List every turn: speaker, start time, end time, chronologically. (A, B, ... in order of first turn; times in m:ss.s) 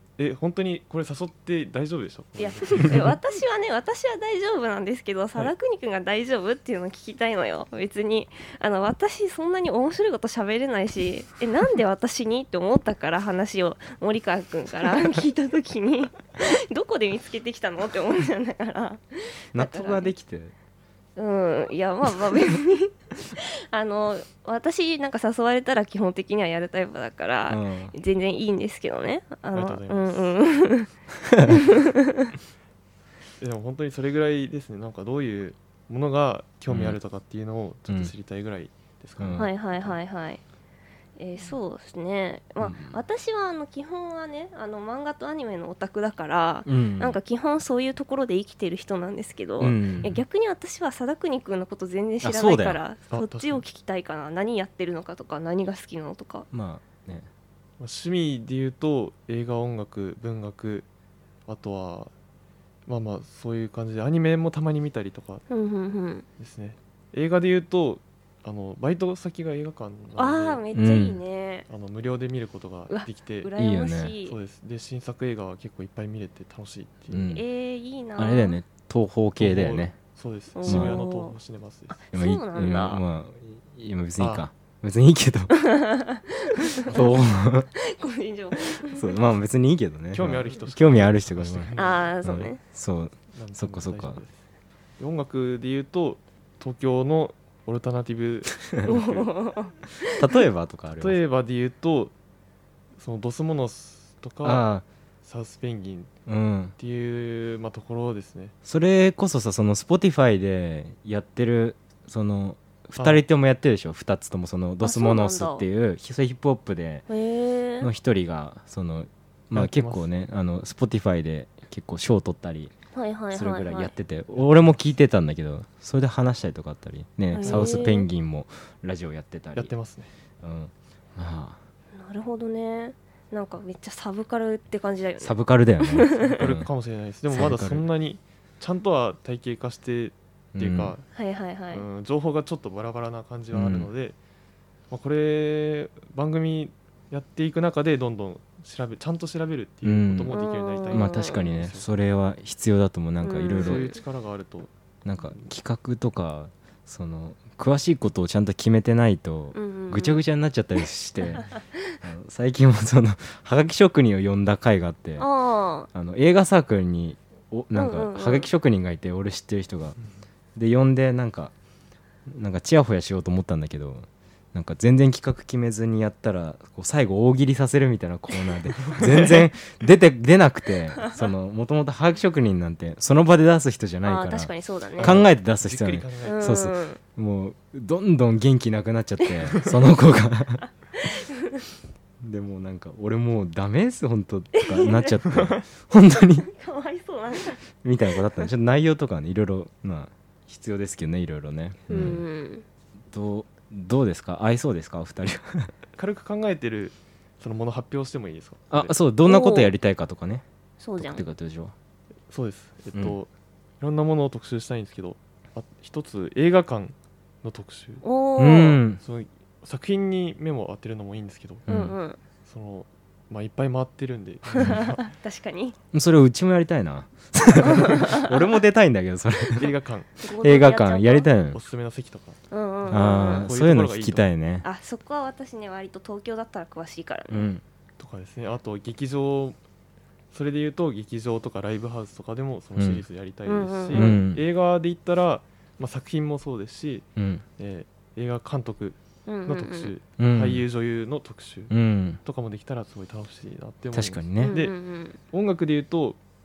0:00.2-0:03.2 A
0:02.4-0:20.1 B
0:19.5-0:20.5 C
0:21.2-0:30.9 B
0:27.5-0:27.9 C
0:29.5-0:30.4 A
0:31.3-0:31.6 C
0:31.5-0:32.3 B
0:33.4-0:40.0 A
0:36.7-0:37.0 C
0:37.9-0:38.1 C
0:39.2-0:39.5 C
0:39.4-0:40.4 B
0:41.2-0:56.5 B
0:42.6-0:43.0 C
0:46.7-0:47.2 C
0:49.6-0:50.2 C
0:52.2-0:52.8 C
0:53.1-0:53.6 A
0:56.5-0:57.3 C
0:57.8-1:00.9 A
1:01.5-1:02.1 A
1:02.9-1:05.4 A
1:05.5-1:06.2 B
1:06.4-1:10.6 A
1:10.2-1:11.7 B
1:10.7-1:11.2 C
1:11.7-1:13.5 A
1:12.9-1:14.4 B
1:13.6-1:14.2 C
1:14.3-1:17.2 A
1:17.1-1:17.4 C
1:17.2-1:18.6 B
1:18.2-1:20.0 C
1:19.4-1:22.0 A
1:20.5-1:21.4 B
1:20.7-1:21.0 C
1:21.9-1:23.0 B
1:22.1-1:25.6 C
1:24.2-1:24.4 A
1:25.6-1:27.2 B
1:26.8-1:27.7 C
1:27.8-1:29.1 B
1:28.8-1:31.7 C
1:30.1-1:32.1 A
1:31.8-1:32.6 B
1:32.2-1:34.2 C
1:33.3-1:34.4 A
1:35.0-1:39.0 A
1:38.7-1:39.2 C
1:38.8-1:40.2 B
1:40.1-1:41.2 C
1:41.0-1:42.1 A
1:43.0-1:44.6 A
1:44.4-1:44.8 C
1:45.2-1:46.1 A
1:46.3-1:46.8 C
1:46.8-1:48.5 A
1:48.6-1:57.1 C
1:53.0-1:53.2 A
1:54.8-1:55.7 B
1:57.1-1:57.9 B
1:57.8-2:02.7 C
1:59.5-2:00.1 A
2:02.9-2:03.9 B
2:03.3-2:09.7 C
2:04.3-2:04.8 A
2:07.3-2:08.1 B
2:07.4-2:07.9 A
2:09.6-2:10.1 A
2:10.4-2:11.6 C
2:12.0-2:16.4 B
2:15.2-2:16.7 C
2:16.2-2:21.1 A
2:17.3-2:17.9 C
2:20.6-2:21.0 C
2:21.1-2:21.8 B
2:21.7-2:24.2 A
2:23.5-2:23.9 C
2:24.9-2:31.9 A
2:29.8-2:30.4 C
2:30.3-2:31.6 B
2:30.9-2:33.9 C
2:33.2-2:34.0 B
2:33.6-2:34.7 A
2:35.0-2:45.3 C
2:39.5-2:40.2 B
2:45.2-2:45.9 B
2:45.9-2:50.0 C
2:47.7-2:48.5 B
2:50.6-2:51.5 C
2:52.3-3:10.6 C
2:58.8-2:59.4 A
3:04.0-3:05.2 B
3:05.0-3:06.6 A
3:06.2-3:07.0 B
3:11.0-3:11.6 B
3:12.2-3:16.5 C
3:14.5-3:15.2 B
3:15.3-3:15.6 A
3:16.4-3:17.6 B
3:17.8-3:22.2 C
3:21.9-3:22.6 B
3:23.1-3:25.7 C
3:26.0-3:28.9 A
3:28.7-3:30.4 C
3:29.3-3:29.7 B
3:30.8-3:31.2 B
3:31.0-3:31.7 C
3:32.3-3:38.0 A
3:38.0-3:38.8 B
3:38.4-3:39.0 C
3:39.0-3:41.6 A
3:41.7-3:42.0 C
3:41.7-3:42.2 B
3:42.4-3:45.1 A
3:44.6-3:45.8 B
3:45.9-3:49.7 C
3:47.6-3:48.3 B
3:49.5-3:50.1 A
3:50.2-3:51.3 B
3:50.4-3:51.6 C
3:51.5-3:54.3 A
3:52.5-3:53.5 B
3:52.9-3:54.6 C
3:54.6-3:57.5 B
3:57.3-3:57.6 C
3:58.0-3:59.6 A
4:00.3-4:07.1 A
4:02.8-4:03.0 C
4:03.5-4:04.2 B
4:03.9-4:04.4 C
4:07.2-4:07.4 C
4:07.6-4:11.7 A
4:09.3-4:09.9 B
4:10.2-4:10.6 C
4:11.7-4:12.2 C
4:12.2-4:16.2 A
4:13.9-4:14.6 C
4:14.4-4:15.2 B